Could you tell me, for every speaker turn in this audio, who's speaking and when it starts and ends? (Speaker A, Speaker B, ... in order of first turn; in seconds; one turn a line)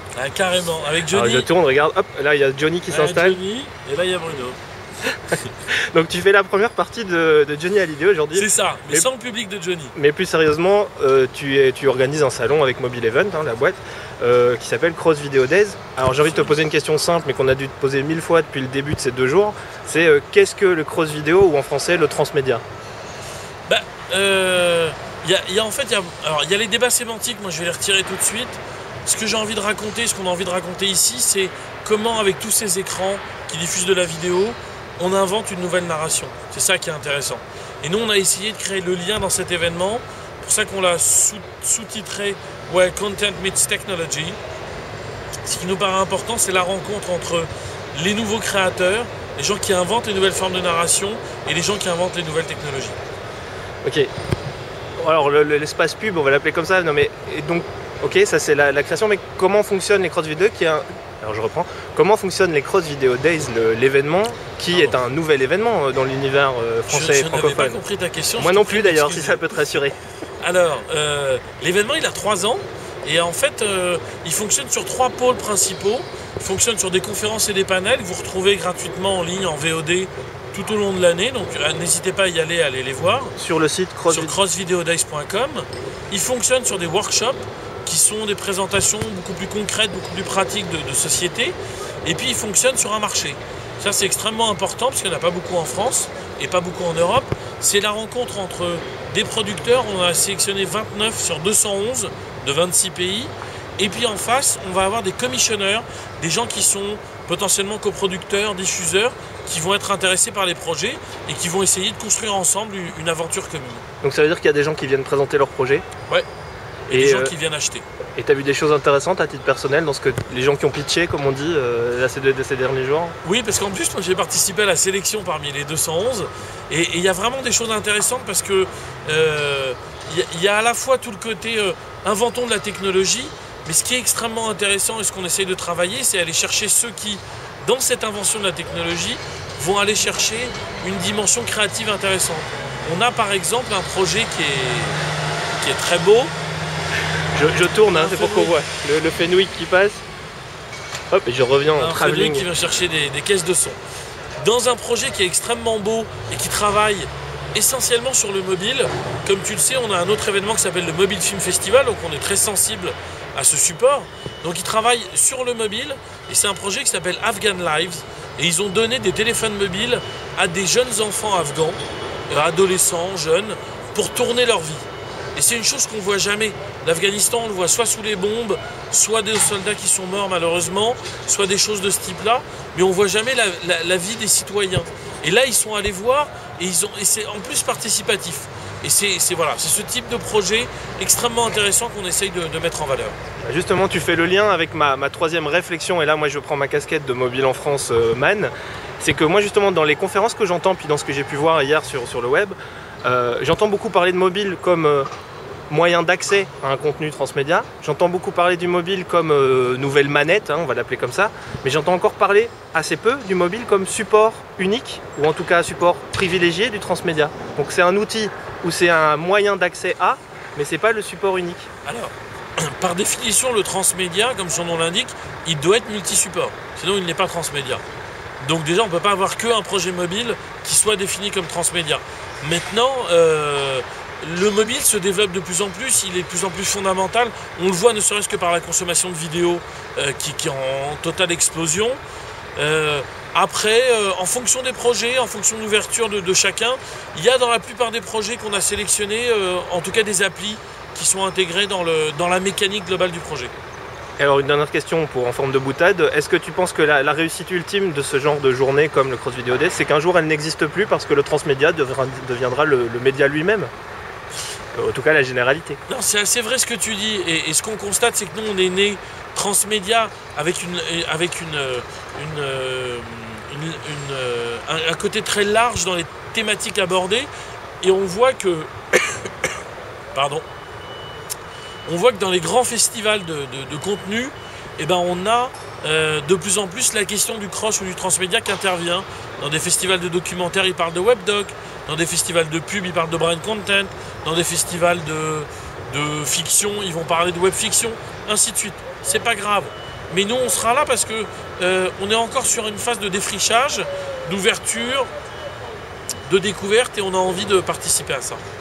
Speaker A: 0.1-1.5
Speaker B: 1.1-3.4
Speaker A: 2.9-4.6
Speaker B: 5.3-9.1
Speaker A: 8.3-9.9
Speaker B: 9.9-22.6
Speaker A: 16.2-16.5
Speaker A: 23.7-44.4
Speaker A: 45.4-53.0
Speaker B: 53.8-54.1
Speaker B: 55.0-67.8
Speaker A: 64.7-65.0
Speaker A: 66.9-69.6
Speaker B: 68.4-70.0
Speaker A: 70.4-83.3
Speaker B: 83.3-84.3
Speaker A: 84.1-113.8
Speaker B: 114.0-115.8
Speaker B: 116.9-117.3
Speaker A: 116.9-117.8
Speaker B: 118.2-123.2
Speaker A: 123.2-145.0
Speaker A: 145.6-146.3
Speaker B: 147.3-150.0
Speaker A: 147.9-148.6
Speaker B: 151.1-152.5
Speaker A: 151.8-153.8
Speaker A: 154.4-193.2
Speaker B: 193.4-205.1
Speaker B: 205.7-221.7
Speaker A: 221.8-227.8
Speaker A: 228.4-242.0
Speaker A: 242.6-253.5
Speaker B: 254.2-263.7
Speaker B: 264.7-265.8
Speaker A: 265.9-277.3
Speaker A: 277.8-279.5
Speaker A: 280.1-280.4
Speaker A: 281.9-305.1
Speaker A: 306.2-308.4